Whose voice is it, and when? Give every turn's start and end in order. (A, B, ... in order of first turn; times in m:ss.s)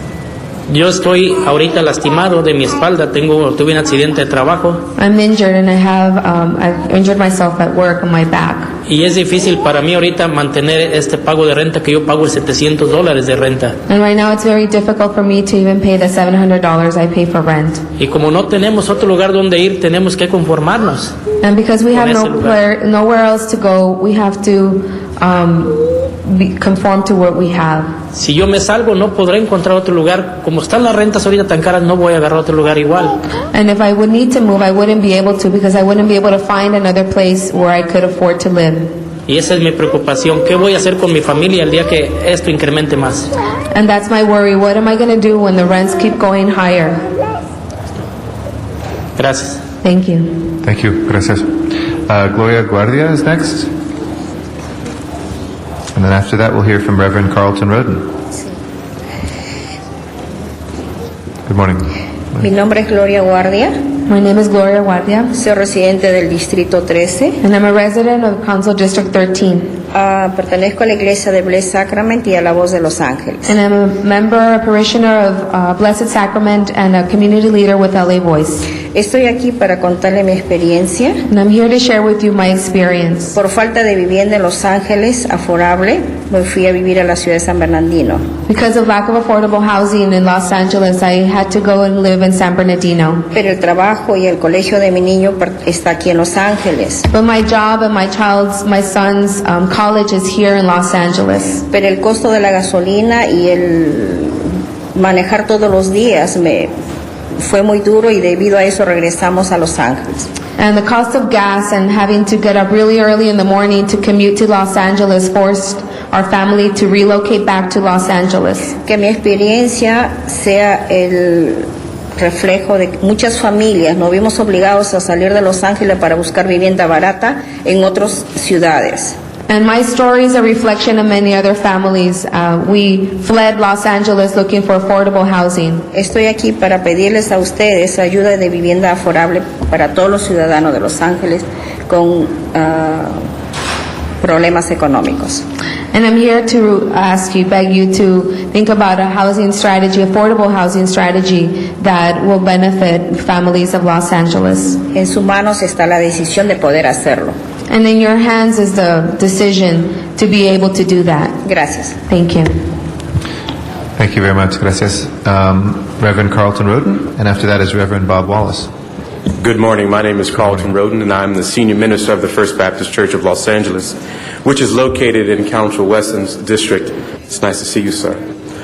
0:00.7-0:04.8 A
0:05.0-0:08.7 B
0:08.9-0:13.8 A
0:13.9-0:17.8 B
0:18.0-0:21.1 A
0:21.4-0:27.9 B
0:21.9-0:22.6 A
0:28.1-0:33.2 A
0:33.5-0:39.0 B
0:39.3-0:43.3 A
0:43.7-0:47.0 B
0:49.2-0:49.6 A
0:49.8-0:50.5 B
0:50.6-0:53.7 C
0:55.9-0:58.2 C
1:01.5-1:01.9 C
1:02.4-1:03.8 D
1:04.1-1:05.4 B
1:05.3-1:07.4 D
1:07.4-1:09.8 B
1:09.9-1:13.5 D
1:13.5-1:18.7 B
1:18.9-1:21.2 D
1:21.3-1:23.4 B
1:23.4-1:28.3 D
1:28.5-1:33.3 B
1:33.3-1:37.0 D
1:37.1-1:41.6 B
1:41.7-1:46.7 D
1:47.4-1:50.3 D
1:50.6-1:58.8 B
1:58.8-2:09.2 D
2:09.5-2:15.9 B
2:15.9-2:23.2 D
2:24.2-2:25.4 D
2:25.9-2:34.8 B
2:34.9-2:37.4 D
2:37.7-2:41.4 B
2:41.4-2:42.0 D
2:42.1-2:42.6 B
2:44.0-2:48.7 C
2:49.4-2:58.2 E
2:50.4-2:50.7 C